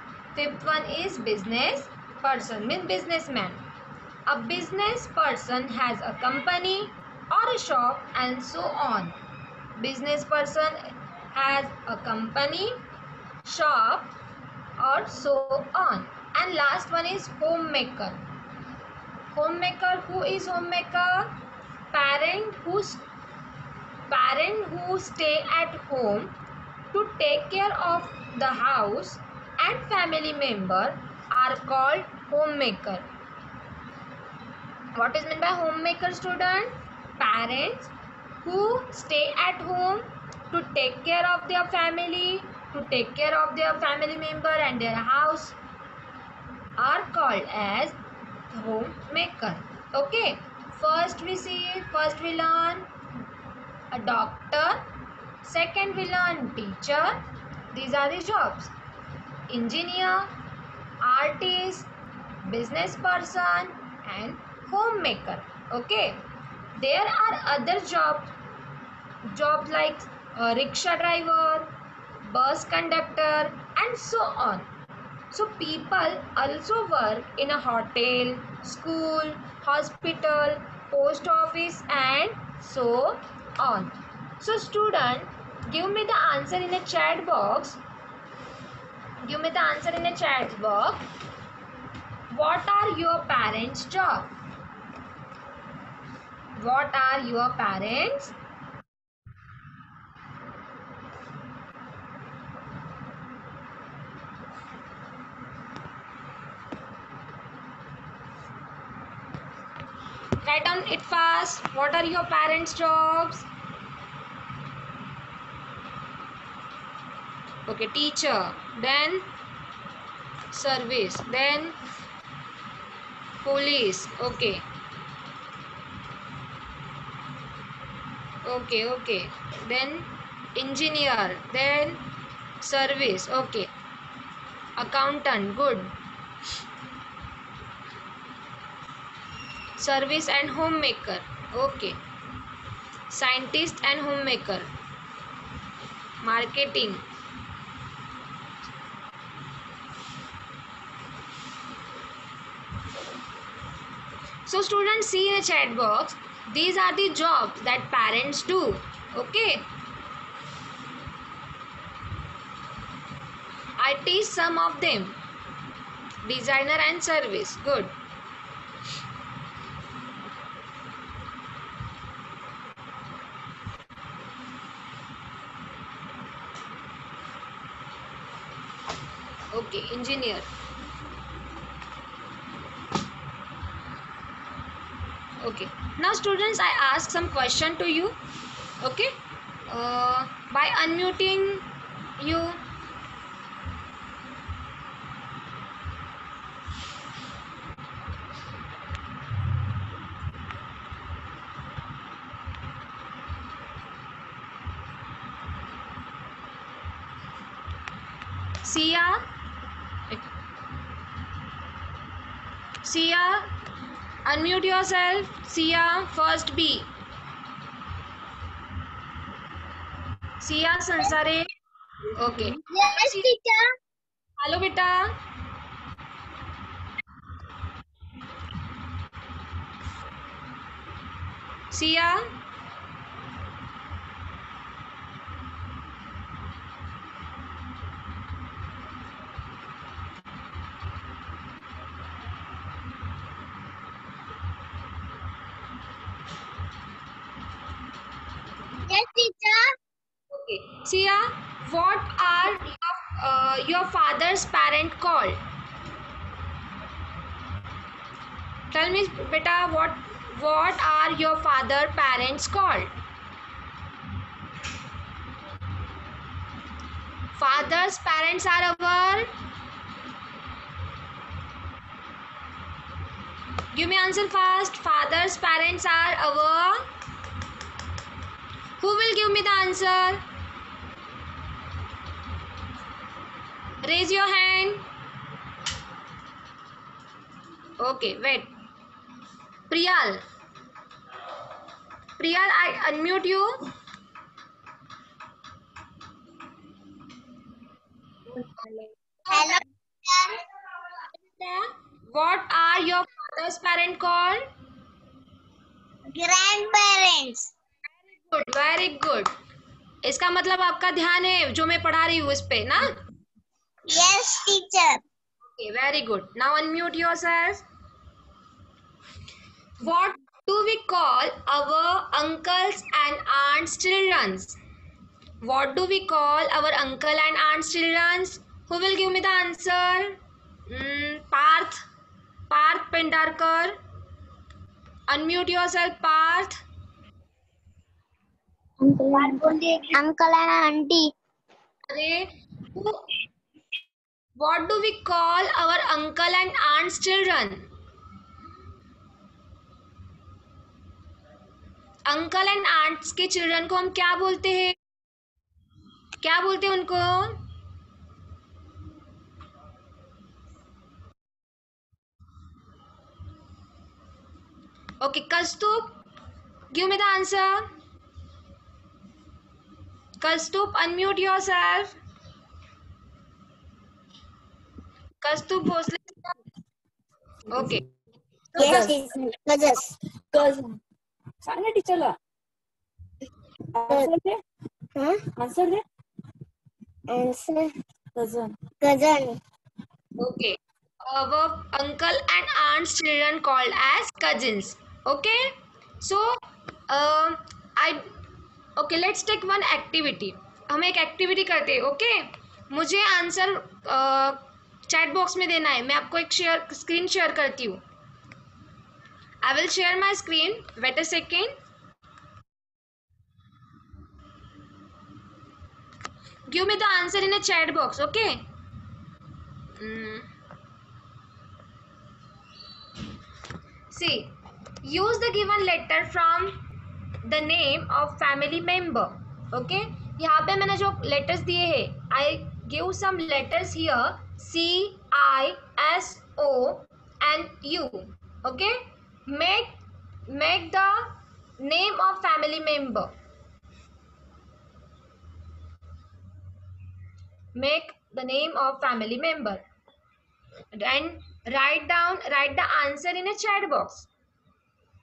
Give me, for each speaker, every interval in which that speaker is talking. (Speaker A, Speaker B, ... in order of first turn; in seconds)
Speaker A: 0.3-3.6, 4.2-9.2, 9.8-12.8, 13.4-14.1, 14.8-18.2, 19.3-21.4, 21.9-23.0, 24.1-26.3, 26.9-33.1, 34.9-45.6, 46.8-48.0, 48.5-52.9, 53.9-54.9, 55.4-58.7, 59.5-60.3, 61.0-61.9, 62.5-66.2, 66.8-68.3, 69.2-74.7, 75.3-87.8, 89.2-91.0, 92.3-94.3, 96.6-98.3, 110.4-113.5, 117.7-119.3, 120.5-121.8, 123.4-124.7, 128.4-132.1, 132.6-133.7, 134.8-135.9, 139.8-142.0, 143.1-144.7, 146.2-147.0, 154.4-159.7, 163.8-165.2, 166.2-167.9, 179.5-180.4, 185.4-188.2, 188.8-189.1, 189.7-192.6, 208.6-209.2, 212.8-213.5, 214.2-216.9, 220.4-221.5, 222.2-223.3, 224.4-225.2, 231.7-232.2, 250.3-255.4, 258.7-262.9, 267.4-269.3, 273.7-276.9, 278.8-280.2, 283.8-284.9, 287.8-288.5, 289.7-290.2, 292.2-293.7, 301.2-304.5, 308.3-309.3, 310.0-313.0, 315.5-317.6, 319.8-324.6, 325.4-331.8, 332.5-333.8, 335.1-336.6, 341.9-343.1, 344.4-347.6, 352.1-354.8, 356.2-357.4, 365.0-366.0, 366.7-367.7, 370.2-371.9, 375.2-376.1, 377.5-377.8, 390.2-398.1, 398.8-407.8, 409.4-411.5, 416.5-418.4, 419.8-420.3, 423.9-426.6, 427.2-443.1, 447.5-449.6, 450.7-454.1
Speaker B: 222.7-223.7, 248.8-249.7, 299.3-300.4, 306.1-307.5, 313.9-315.0, 339.1-341.1, 378.6-379.9, 384.9-385.2, 387.1-387.7, 388.8-389.4
Speaker C: 378.6-379.0, 380.3-380.8, 381.4-382.1, 383.7-384.4, 385.4-385.8, 388.1-388.6